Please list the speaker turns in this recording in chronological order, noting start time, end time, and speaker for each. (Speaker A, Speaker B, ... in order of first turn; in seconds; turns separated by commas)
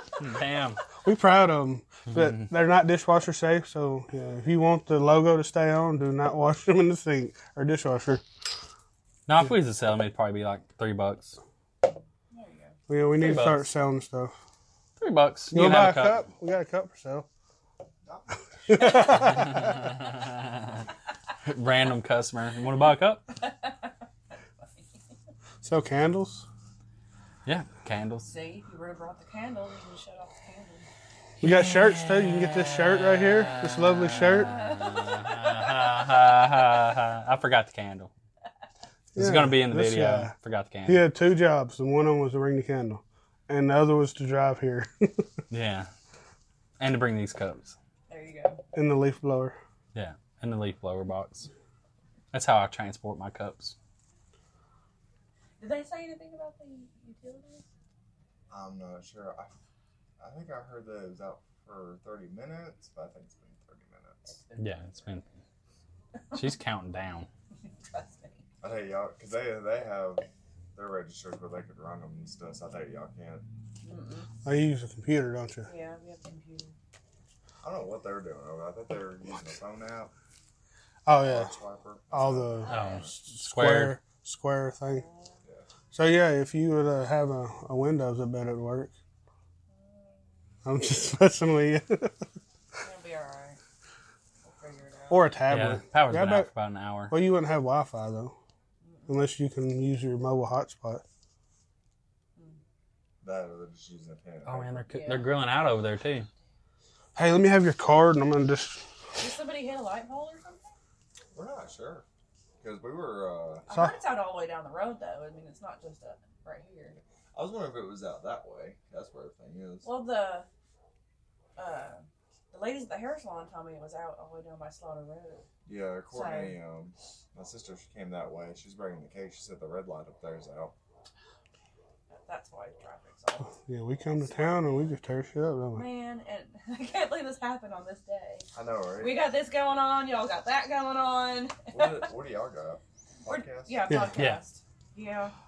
Speaker A: 0.2-0.8, Speaker B: 1.0-8.2, Speaker A: 2.1-2.5, Speaker A: 9.3-11.4, Speaker C: 12.3-12.8, Speaker B: 12.9-14.3, Speaker A: 13.2-13.6, Speaker A: 15.0-16.2, Speaker B: 15.5-17.3, Speaker D: 18.0-19.0, Speaker B: 18.7-19.6, Speaker A: 19.1-20.8, Speaker A: 21.4-23.2, Speaker C: 23.4-23.9, Speaker C: 24.6-24.9, Speaker B: 25.6-26.4, Speaker A: 27.4-28.3, Speaker C: 28.2-30.9, Speaker B: 31.4-34.5, Speaker A: 31.4-38.1, Speaker C: 34.4-36.0, Speaker B: 39.1-40.3, Speaker A: 39.1-41.0, Speaker B: 40.9-45.3, Speaker A: 45.5-45.9, Speaker A: 46.8-47.8, Speaker C: 48.1-48.6, Speaker B: 48.7-49.6, Speaker A: 49.9-51.5, Speaker A: 52.3-53.7, Speaker C: 55.6-57.6, Speaker D: 58.5-59.5, Speaker D: 60.2-64.3, Speaker C: 64.3-64.6, Speaker A: 64.6-65.3, Speaker C: 66.2-66.5, Speaker A: 66.3-67.3, Speaker C: 67.6-68.4, Speaker D: 68.6-73.5, Speaker C: 73.8-74.3, Speaker B: 74.4-75.7, Speaker C: 75.6-76.7, Speaker D: 77.6-80.1, Speaker B: 81.0-81.5, Speaker D: 81.2-83.1, Speaker B: 82.1-85.0, Speaker C: 82.6-83.1, Speaker A: 82.7-84.0, Speaker C: 84.9-85.3, Speaker B: 85.9-88.9, Speaker C: 89.7-90.2, Speaker B: 90.6-92.2, Speaker C: 92.8-93.6, Speaker C: 94.4-95.3, Speaker B: 95.1-96.5, Speaker A: 95.5-97.2, Speaker B: 97.1-98.3, Speaker C: 98.8-99.2, Speaker B: 99.1-101.0, Speaker D: 103.2-104.8, Speaker A: 104.4-106.3, Speaker C: 104.9-105.3, Speaker B: 107.2-108.8, Speaker C: 109.2-110.7, Speaker D: 111.3-112.0, Speaker D: 112.6-113.7, Speaker B: 113.7-113.9, Speaker C: 113.7-117.0, Speaker D: 117.3-119.9, Speaker C: 119.8-120.5, Speaker C: 121.6-125.5, Speaker D: 125.7-130.7, Speaker C: 126.1-126.6, Speaker C: 132.1-133.6, Speaker B: 133.6-135.8, Speaker C: 134.2-134.9, Speaker C: 135.7-138.5, Speaker D: 138.5-139.2, Speaker C: 139.0-142.1, Speaker D: 141.7-143.9, Speaker C: 143.2-145.3